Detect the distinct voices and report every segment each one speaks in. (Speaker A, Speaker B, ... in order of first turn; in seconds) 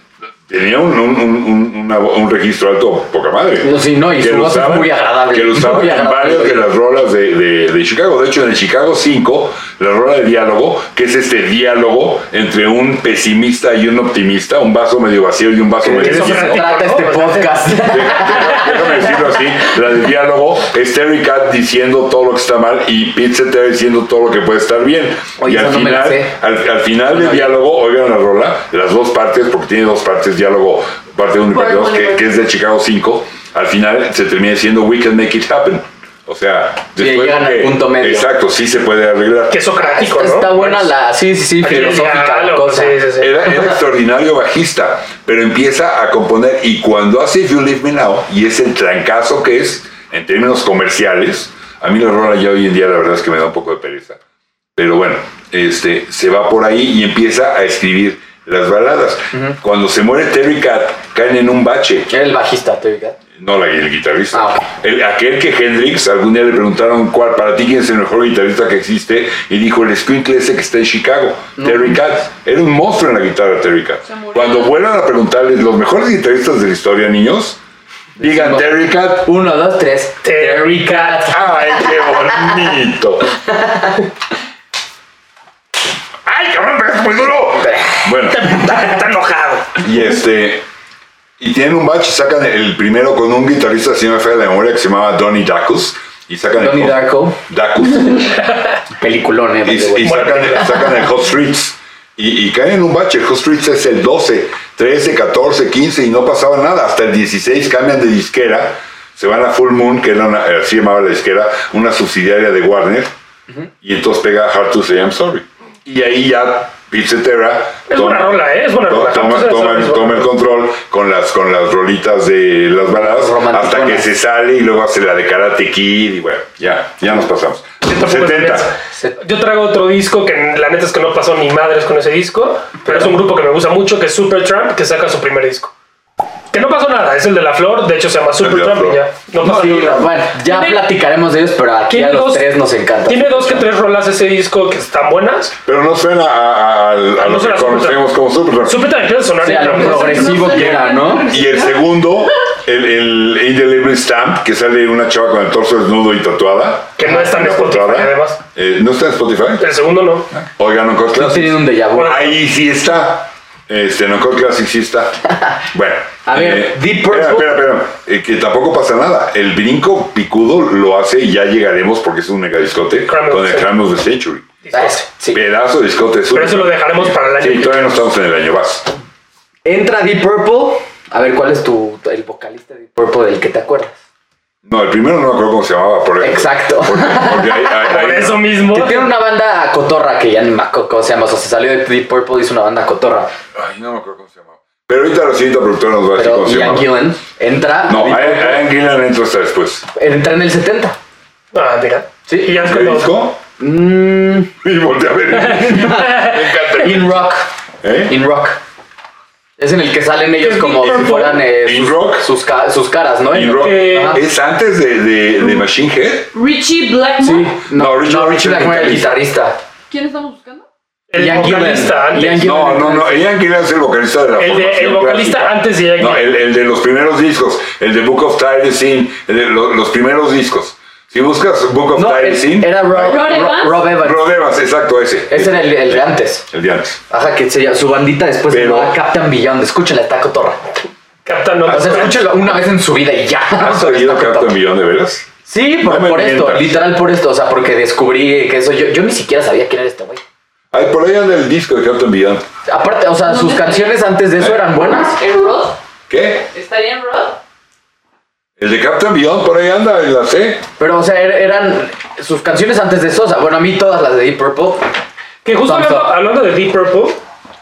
Speaker A: 0.5-16.6, 17.9-39.6, 43.2-54.2, 54.8-62.1, 63.4-77.6, 78.2-79.3, 81.3-83.3, 86.2-88.7, 89.8-90.6, 91.4-98.4, 99.6-113.1, 113.8-128.7, 138.4-139.9, 145.7-148.8, 150.4-159.6, 160.3-165.2, 165.7-174.5, 175.3-178.9, 184.6-188.4, 193.5-197.0, 197.9-199.8, 202.6-203.4, 204.6-207.1, 207.8-208.2, 211.6-212.3, 213.3-216.3, 217.7-219.2, 222.4-233.2, 233.9-237.0, 238.5-238.9, 243.6-245.2, 245.8-246.8, 250.7-252.4, 256.1-256.5, 258.6-260.6
Speaker B: 3.6-6.7, 15.8-18.8, 25.4-26.3, 27.1-27.5, 37.0-38.3, 39.8-43.8, 62.1-63.2, 64.3-64.6, 71.6-72.0, 78.2-81.8, 87.6-88.0, 96.6-97.4, 98.9-100.2, 122.9-124.1, 128.9-129.2, 132.8-133.2, 139.4-143.7, 149.4-151.3, 161.1-162.3, 166.2-167.6, 174.7-175.4, 179.6-184.0, 186.2-193.3, 196.1-198.6, 199.9-201.0, 202.3-202.8, 203.6-204.5, 205.6-207.5, 208.1-208.6, 209.6-214.2, 217.2-219.6, 221.2-223.3, 231.9-234.3, 235.3-236.4, 237.1-240.7, 241.7-244.5, 245.4-250.2, 252.7-255.2, 260.8-264.9, 265.6-266.1
Speaker C: 15.9-17.6, 39.5-40.9, 41.6-43.4, 80.2-81.3, 88.3-89.8, 100.0-100.8, 117.9-120.3, 127.8-135.7, 136.5-140.8, 141.9-142.5, 143.1-145.6, 147.2-148.1, 148.6-150.4, 157.0-158.4, 159.6-160.3, 161.9-162.3, 173.1-173.7, 174.6-175.0, 176.3-178.0, 187.8-189.1, 201.5-203.1, 205.5-206.5, 210.4-211.5, 213.6-214.2, 221.1-222.5, 224.4-226.2, 241.2-242.4, 265.4-267.2
Speaker D: 31.5-32.3, 74.0-74.7, 149.6-151.9, 216.3-217.6, 219.9-220.7, 232.9-233.9, 253.2-253.9, 254.7-255.8, 256.5-257.4